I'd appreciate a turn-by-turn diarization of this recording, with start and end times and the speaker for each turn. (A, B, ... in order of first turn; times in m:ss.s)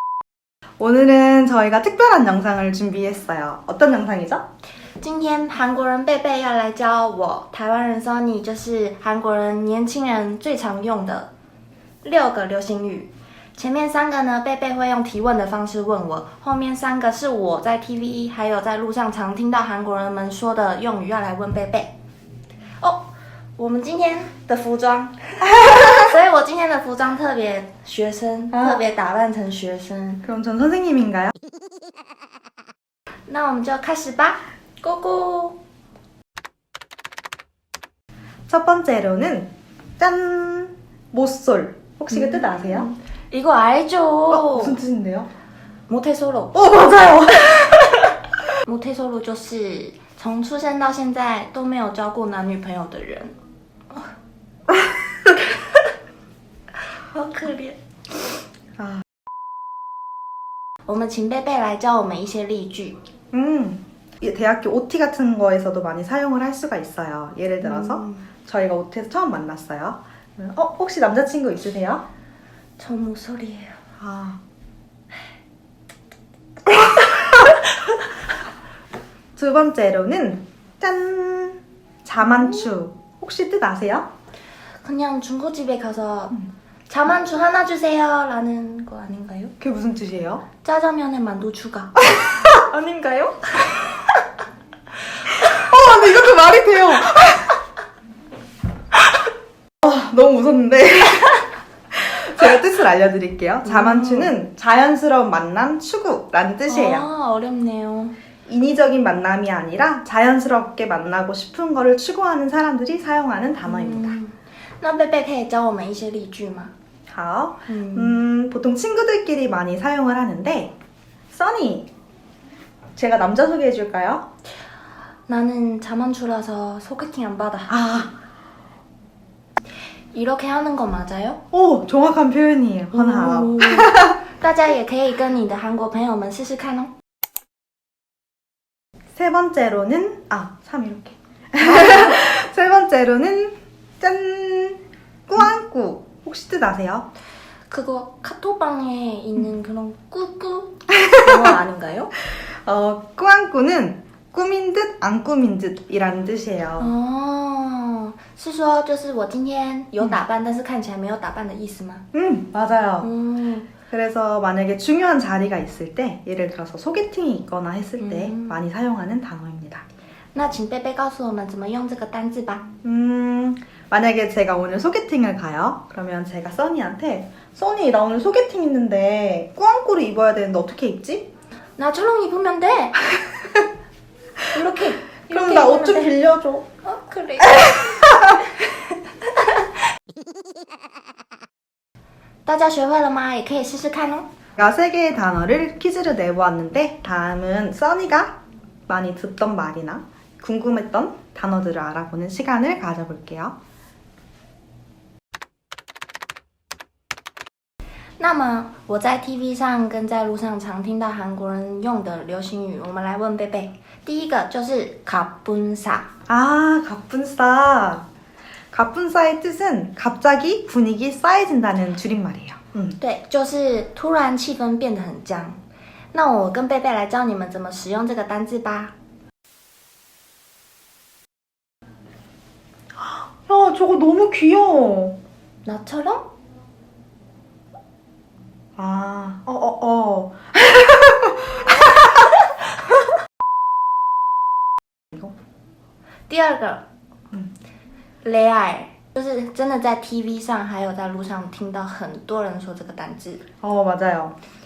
0:00.8-0:04.4 A
0:05.0-0:11.3 B
0:12.0-0:21.9 B
0:22.8-0:30.2 B
0:28.5-0:28.8 A
0:30.2-0:31.3 A
0:33.3-0:35.6 B
0:38.5-0:42.9 A
0:42.1-0:44.8 B
0:44.3-0:45.3 A
0:45.9-0:46.6 B
0:46.5-0:48.1 A
0:48.6-0:53.3 B
0:57.1-0:58.3 B
0:58.8-0:59.0 A
1:00.8-1:03.0 B
1:03.3-1:12.0 A
1:07.6-1:08.3 B
1:12.8-1:13.8 B
1:14.0-1:14.4 A
1:19.4-1:24.1 A
1:22.2-1:22.7 B
1:24.8-1:29.5 B
1:29.6-1:30.4 A
1:30.6-1:34.1 B
1:32.1-1:32.5 A
1:35.4-1:37.5 A
1:39.8-1:47.1 A
1:43.6-1:44.3 B
1:46.7-1:48.1 B
1:48.4-1:54.2 A
1:53.6-1:56.7 B
1:57.1-2:00.7 A
1:57.7-1:58.2 B
2:01.3-2:01.9 A
2:02.9-2:04.2 A
2:05.3-2:07.8 B
2:07.7-2:08.1 A
2:10.1-2:11.4 B
2:11.5-2:14.2 A
2:12.9-2:16.9 B
2:19.2-2:27.1 A
2:21.6-2:22.1 B
2:27.7-2:32.1 B
2:31.0-2:31.4 A
2:32.6-2:36.9 A
2:36.8-2:42.0 B
2:42.1-2:43.1 A
2:43.0-2:43.7 B
2:43.9-2:49.8 A
2:48.0-2:48.6 B
2:50.3-2:52.7 B
2:52.8-3:01.3 A
3:01.8-3:03.0 B
3:04.5-3:06.2 B
3:05.3-3:06.7 A
3:06.8-3:09.6 B
3:07.4-3:08.4 A
3:12.4-3:14.3 B
3:14.6-3:23.5 A
3:28.2-3:36.1 B
3:36.3-3:38.1 A
3:38.7-3:43.0 A
3:43.0-3:45.6 B
3:46.1-3:48.9 B
3:53.0-3:55.2 A
3:55.6-3:56.3 B
3:58.8-4:02.3 A
4:06.3-4:06.8 B
4:08.2-4:13.4 B
4:13.6-4:14.4 A